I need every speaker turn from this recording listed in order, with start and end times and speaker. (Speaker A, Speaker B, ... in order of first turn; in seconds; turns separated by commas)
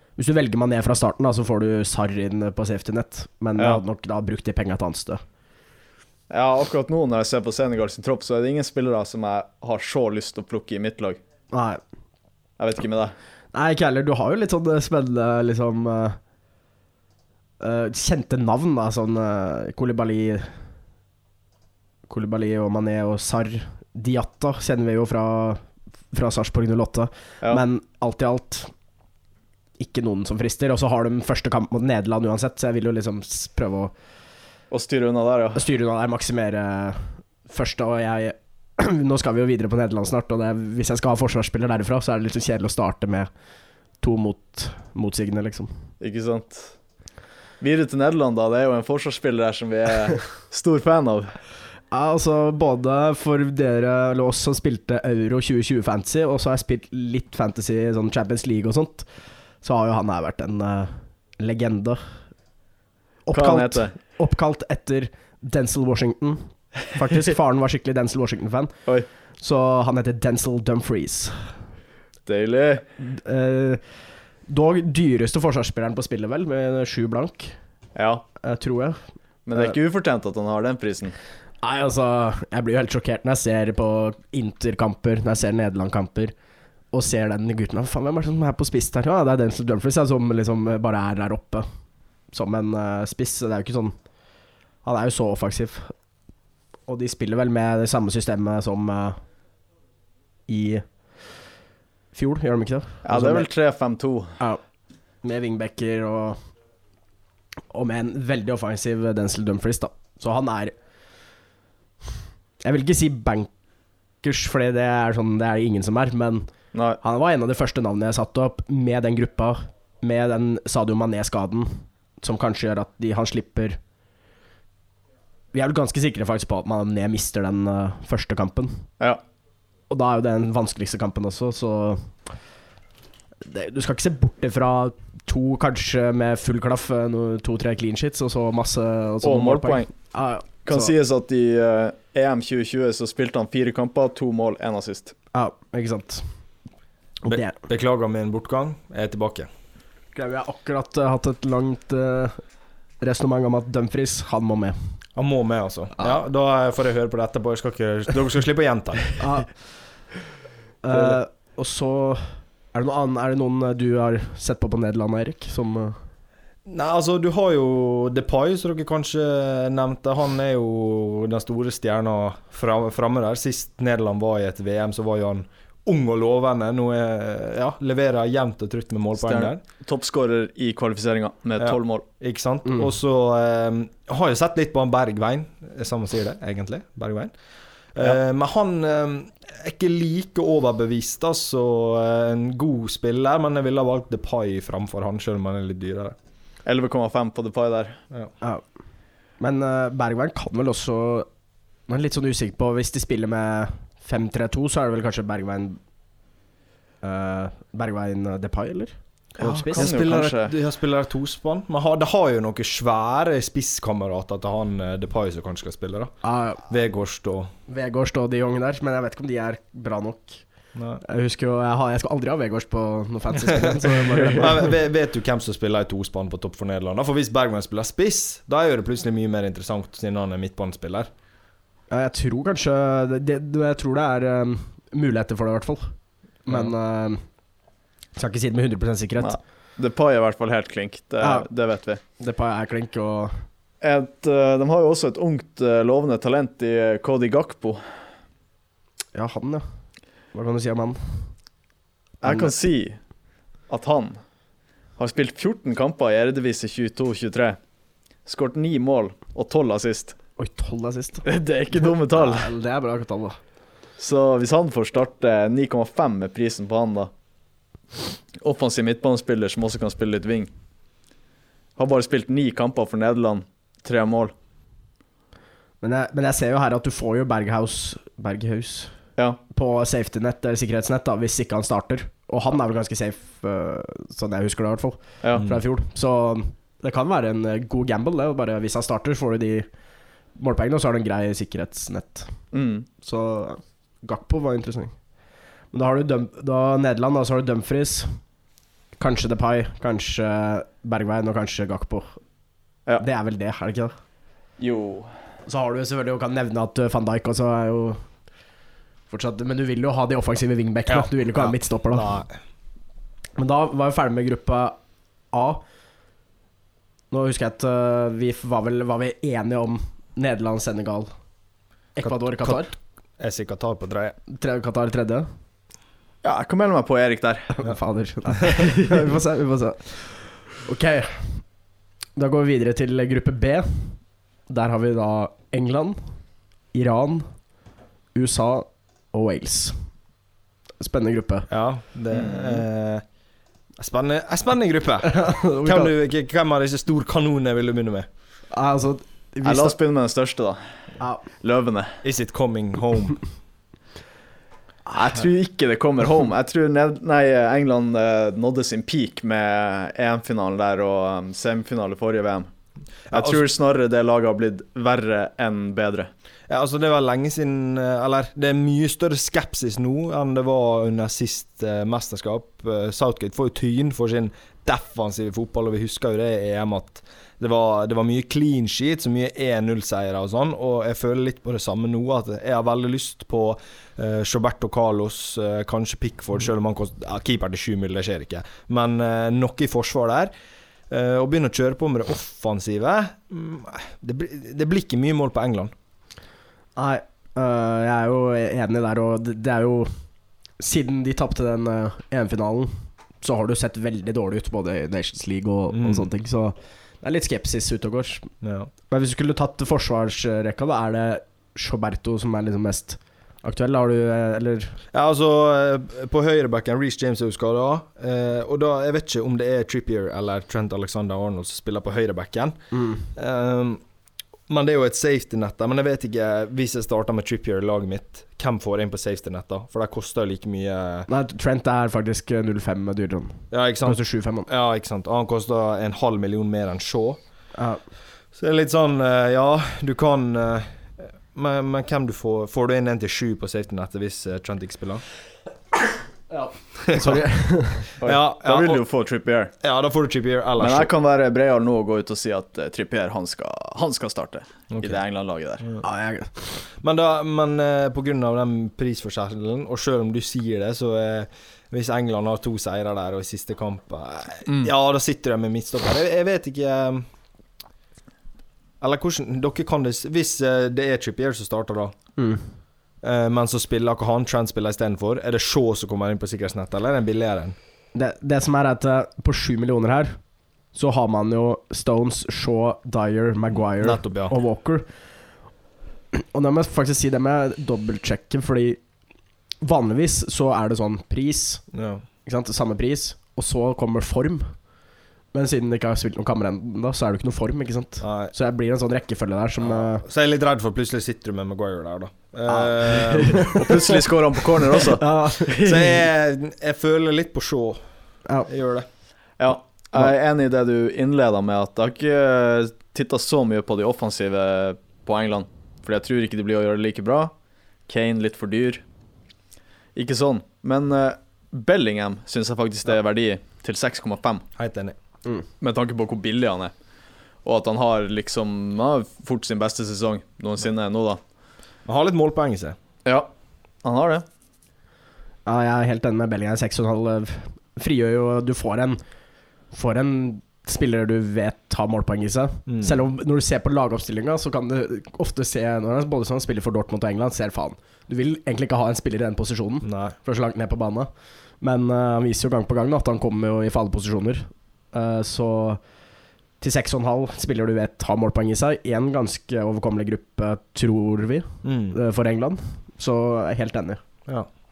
Speaker A: 0.2-5.2, Speaker B: 6.3-11.2, Speaker A: 11.5-11.8, Speaker B: 12.6-13.2, Speaker A: 13.5-16.2, Speaker A: 17.6-20.6, Speaker A: 22.1-28.7, Speaker A: 29.8-33.9, Speaker B: 34.7-35.6, Speaker A: 35.5-43.3, Speaker A: 44.0-45.7, Speaker B: 46.0-46.8, Speaker B: 47.6-51.4, Speaker A: 51.9-59.1, Speaker A: 59.6-62.0, Speaker A: 63.3-71.6, Speaker B: 63.3-63.9, Speaker B: 72.3-72.8, Speaker A: 73.0-73.9, Speaker A: 74.5-77.6, Speaker B: 78.0-78.2, Speaker A: 78.4-79.0, Speaker B: 79.5-81.2, Speaker A: 81.6-86.3, Speaker A: 86.9-91.7, Speaker A: 92.3-94.0, Speaker A: 94.8-96.0, Speaker A: 96.9-99.2, Speaker A: 100.5-101.4, Speaker A: 102.1-103.5, Speaker B: 103.1-104.4, Speaker A: 105.2-106.4, Speaker A: 107.7-110.7, Speaker A: 112.6-113.5, Speaker A: 114.2-116.5, Speaker B: 116.7-117.0, Speaker A: 117.0-123.8, Speaker A: 125.5-128.9, Speaker A: 129.9-132.3, Speaker A: 133.4-140.9, Speaker B: 139.2-140.1, Speaker B: 140.7-145.2, Speaker A: 145.3-146.3, Speaker A: 147.2-147.6, Speaker C: 147.2-149.5, Speaker A: 150.2-152.4, Speaker A: 153.0-154.8, Speaker C: 155.2-159.1, Speaker A: 159.2-159.6, Speaker A: 160.8-166.0, Speaker C: 166.7-179.6, Speaker B: 179.2-182.1, Speaker C: 181.6-187.3, Speaker C: 187.9-196.2, Speaker B: 196.7-198.0, Speaker A: 199.4-201.3, Speaker A: 201.9-205.8, Speaker A: 207.0-209.9, Speaker B: 209.4-210.5, Speaker C: 209.4-217.5, Speaker A: 216.2-216.6, Speaker A: 217.7-220.4, Speaker C: 220.8-221.0, Speaker A: 221.0-224.8, Speaker C: 224.4-231.1, Speaker A: 231.9-237.3, Speaker A: 238.1-239.4, Speaker B: 239.2-242.0, Speaker A: 241.2-241.5, Speaker A: 242.1-243.4, Speaker B: 243.8-247.8, Speaker A: 249.2-249.7, Speaker A: 250.3-251.3, Speaker B: 252.2-253.0, Speaker A: 252.2-252.5, Speaker B: 253.7-254.2, Speaker B: 255.0-257.6, Speaker B: 258.2-260.2, Speaker A: 260.4-263.4, Speaker B: 261.2-262.5, Speaker B: 264.0-267.1, Speaker B: 268.4-270.5, Speaker B: 271.8-274.3, Speaker A: 275.8-289.7, Speaker C: 285.3-285.6, Speaker A: 290.3-292.4, Speaker B: 292.5-292.9, Speaker A: 293.0-295.0, Speaker A: 295.7-298.2, Speaker A: 299.0-302.2, Speaker A: 303.0-304.0, Speaker B: 304.6-305.1, Speaker A: 305.5-308.0, Speaker A: 309.1-312.2, Speaker C: 310.9-312.4, Speaker A: 313.4-314.8, Speaker A: 315.3-315.7, Speaker A: 317.1-321.1, Speaker A: 322.0-322.7, Speaker C: 322.0-324.2, Speaker A: 324.3-325.3, Speaker B: 326.2-327.5, Speaker A: 327.5-331.5, Speaker A: 332.1-336.0, Speaker A: 336.7-337.4, Speaker A: 338.1-339.9, Speaker A: 340.8-341.5, Speaker C: 341.5-343.0, Speaker B: 342.1-342.6, Speaker C: 343.8-348.1, Speaker A: 345.1-345.9, Speaker A: 348.5-349.8, Speaker B: 349.4-350.7, Speaker B: 351.3-352.0, Speaker C: 352.0-353.2, Speaker B: 354.9-362.5, Speaker B: 363.1-366.1, Speaker C: 363.1-363.4, Speaker C: 366.5-390.3, Speaker C: 390.9-395.7, Speaker A: 396.8-408.3, Speaker C: 405.7-406.1, Speaker C: 408.4-408.7, Speaker A: 408.9-414.8, Speaker C: 414.9-423.8, Speaker A: 422.7-423.1, Speaker C: 424.5-431.1, Speaker A: 431.1-434.5, Speaker C: 433.5-437.2, Speaker A: 437.6-437.8, Speaker C: 438.3-445.1, Speaker A: 446.3-447.9, Speaker C: 446.9-447.2, Speaker C: 447.9-448.8, Speaker B: 448.0-449.5, Speaker C: 449.6-450.9, Speaker B: 450.6-455.6, Speaker C: 454.7-455.0, Speaker A: 455.8-456.6, Speaker C: 456.6-467.1, Speaker C: 468.8-471.9, Speaker A: 472.2-472.5, Speaker C: 473.0-477.6, Speaker A: 477.9-484.9, Speaker C: 483.8-484.4, Speaker A: 486.1-488.8, Speaker A: 489.6-491.6, Speaker C: 491.7-492.0, Speaker A: 492.2-494.6, Speaker A: 495.3-500.0, Speaker C: 498.0-498.3, Speaker C: 499.6-504.1, Speaker A: 502.5-503.7, Speaker B: 503.5-505.9, Speaker A: 504.9-505.7, Speaker C: 505.6-507.8, Speaker C: 508.5-508.9, Speaker B: 509.4-517.3, Speaker B: 517.9-518.8, Speaker B: 520.0-524.5, Speaker C: 524.6-525.0, Speaker B: 525.6-526.7, Speaker B: 527.4-531.2, Speaker C: 531.9-532.8, Speaker B: 533.0-533.3, Speaker B: 533.8-534.2, Speaker A: 535.5-539.0, Speaker A: 539.7-551.1, Speaker C: 542.7-543.0, Speaker C: 549.8-550.1, Speaker A: 551.6-555.8, Speaker A: 556.6-564.0, Speaker C: 561.6-562.0